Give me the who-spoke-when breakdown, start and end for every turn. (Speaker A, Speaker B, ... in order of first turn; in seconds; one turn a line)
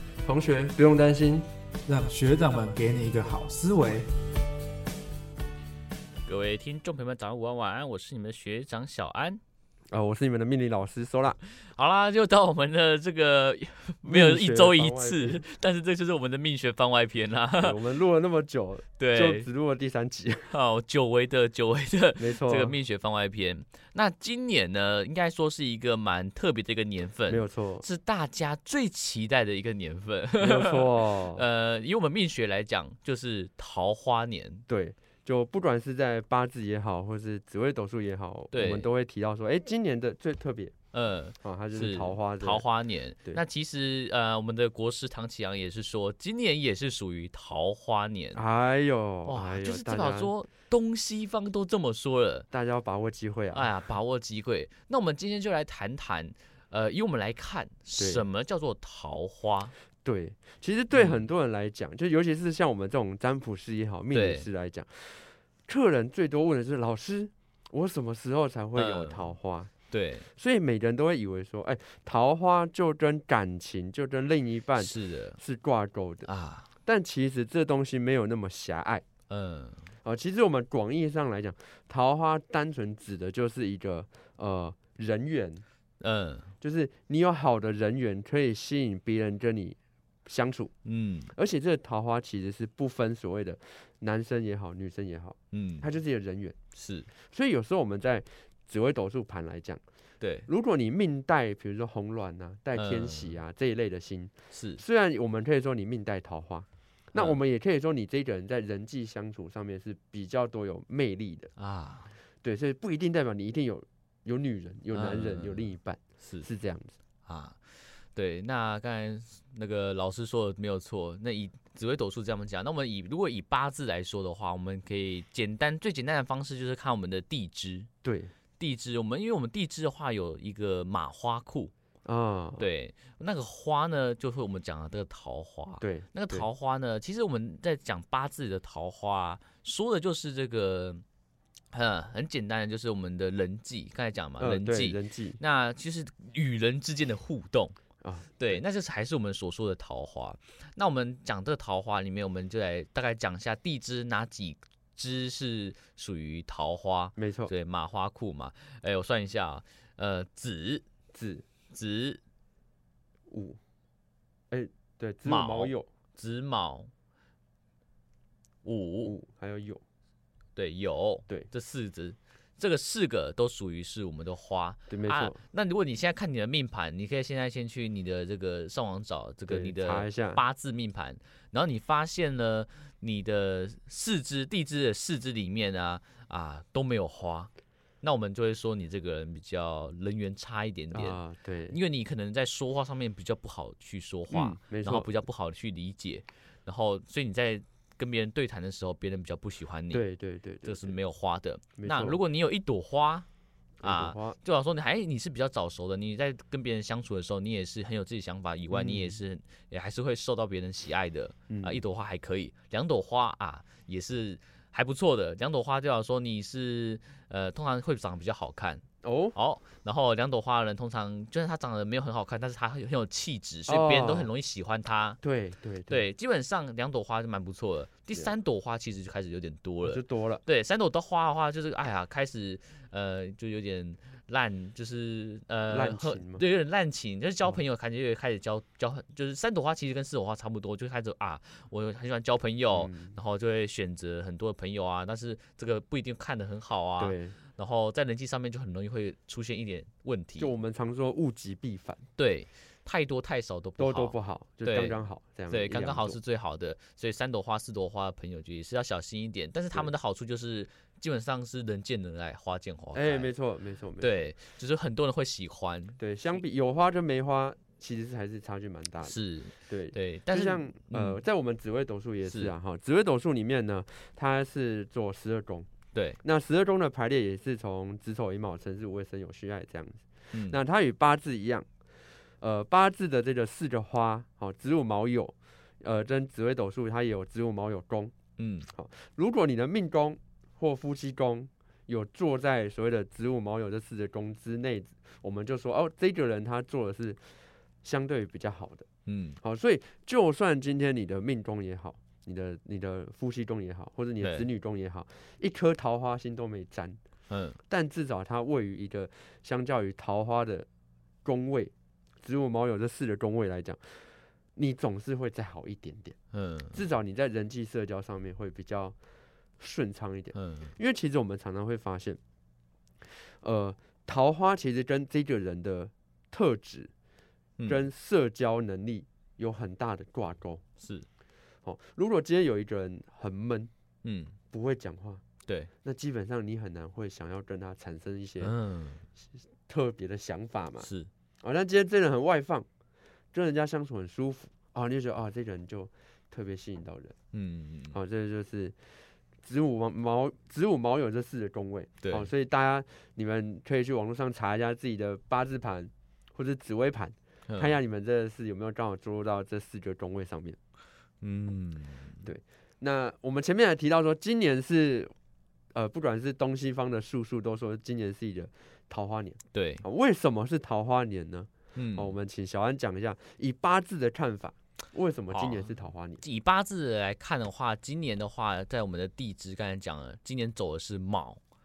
Speaker A: 0.2-1.4
Speaker B: 1.8-4.1
Speaker C: 6.2-9.4
Speaker A: 9.9-11.4
Speaker C: 11.6-17.8
Speaker A: 14.0-15.4
Speaker A: 17.6-20.5
Speaker C: 19.0-19.4
Speaker C: 20.5-34.6
Speaker A: 22.2-22.8
Speaker A: 27.3-27.9
Speaker A: 30.4-31.4
Speaker A: 34.7-40.7
Speaker C: 38.5-38.9
Speaker C: 40.9-48.4
Speaker A: 41.4-42.6
Speaker A: 48.3-50.3
Speaker C: 49.2-52.5
Speaker A: 52.5-53.7
Speaker C: 53.5-59.7
Speaker A: 58.0-58.2
Speaker A: 60.0-69.7
Speaker C: 60.9-61.3
Speaker C: 64.1-64.5
Speaker C: 68.7-69.3
Speaker C: 69.9-70.3
Speaker A: 70.3-76.3
Speaker C: 74.8-75.4
Speaker C: 76.2-76.7
Speaker A: 76.8-79.0
Speaker C: 79.3-79.8
Speaker A: 80.0-85.6
Speaker C: 86.0-86.5
Speaker A: 86.6-90.7
Speaker C: 90.8-91.3
Speaker A: 91.3-96.5
Speaker C: 95.5-95.9
Speaker C: 96.7-97.1
Speaker A: 97.3-99.8
Speaker C: 100.2-100.5
Speaker A: 100.5-111.5
Speaker C: 102.7-103.4
Speaker C: 104.5-104.8
Speaker C: 111.6-112.1
Speaker A: 112.4-116.9
Speaker C: 114.9-116.5
Speaker C: 117.2-117.6
Speaker C: 118.1-127.9
Speaker A: 128.0-128.3
Speaker C: 128.6-131.7
Speaker A: 132.0-132.7
Speaker C: 132.6-141.0
Speaker A: 135.8-136.5
Speaker C: 141.7-147.8
Speaker A: 144.4-145.4
Speaker A: 148.0-148.6
Speaker C: 148.4-160.8
Speaker A: 157.2-157.5
Speaker A: 161.1-161.4
Speaker C: 161.7-162.2
Speaker A: 163.3-163.6
Speaker A: 164.5-165.9
Speaker C: 165.2-166.9
Speaker C: 168.6-169.1
Speaker A: 169.0-169.8
Speaker C: 170.6-187.5
Speaker A: 174.9-175.4
Speaker A: 179.5-180.4
Speaker C: 188.0-191.2
Speaker A: 190.9-191.8
Speaker C: 191.7-200.0
Speaker A: 194.3-195.1
Speaker A: 199.9-201.0
Speaker C: 200.6-203.2
Speaker A: 201.8-202.2
Speaker A: 203.8-204.4
Speaker C: 203.8-218.8
Speaker A: 208.7-209.2
Speaker A: 211.5-211.8
Speaker A: 219.0-219.3
Speaker C: 219.3-225.2
Speaker A: 223.7-224.3
Speaker A: 225.2-226.1
Speaker C: 225.9-250.5
Speaker A: 229.8-230.4
Speaker A: 235.7-236.4
Speaker A: 242.7-243.2
Speaker A: 247.0-247.4
Speaker A: 250.4-252.0
Speaker C: 252.2-263.3
Speaker A: 253.8-256.2
Speaker A: 262.9-264.1
Speaker C: 264.0-266.4
Speaker A: 266.0-269.2
Speaker C: 269.0-271.2
Speaker A: 269.7-275.7
Speaker C: 272.2-272.5
Speaker C: 275.9-276.2
Speaker A: 276.2-281.6
Speaker C: 280.3-280.6
Speaker A: 282.4-288.1
Speaker C: 288.4-288.7
Speaker A: 288.7-297.2
Speaker A: 297.8-298.8
Speaker C: 299.1-299.4
Speaker A: 299.4-307.0
Speaker C: 304.2-304.5
Speaker C: 307.3-307.6
Speaker A: 307.7-310.7
Speaker A: 311.2-314.0
Speaker A: 314.6-316.1
Speaker C: 316.3-316.8
Speaker A: 316.7-318.9
Speaker A: 319.6-322.2
Speaker C: 320.3-320.7
Speaker A: 323.4-326.9
Speaker C: 327.6-327.9
Speaker A: 327.7-330.6
Speaker C: 330.8-331.1
Speaker A: 331.6-333.7
Speaker C: 334.0-334.4
Speaker A: 334.5-335.2
Speaker C: 335.4-335.7
Speaker A: 335.8-338.5
Speaker C: 338.4-339.0
Speaker A: 339.6-340.9
Speaker C: 340.8-341.1
Speaker A: 341.4-342.7
Speaker A: 343.3-347.1
Speaker C: 347.3-348.0
Speaker A: 347.9-348.8
Speaker A: 349.4-360.6
Speaker C: 352.0-352.3
Speaker C: 357.5-357.8
Speaker C: 361.2-362.3
Speaker A: 362.2-365.1
Speaker A: 365.7-376.2
Speaker C: 369.5-369.8
Speaker C: 371.7-372.1
Speaker C: 375.3-381.4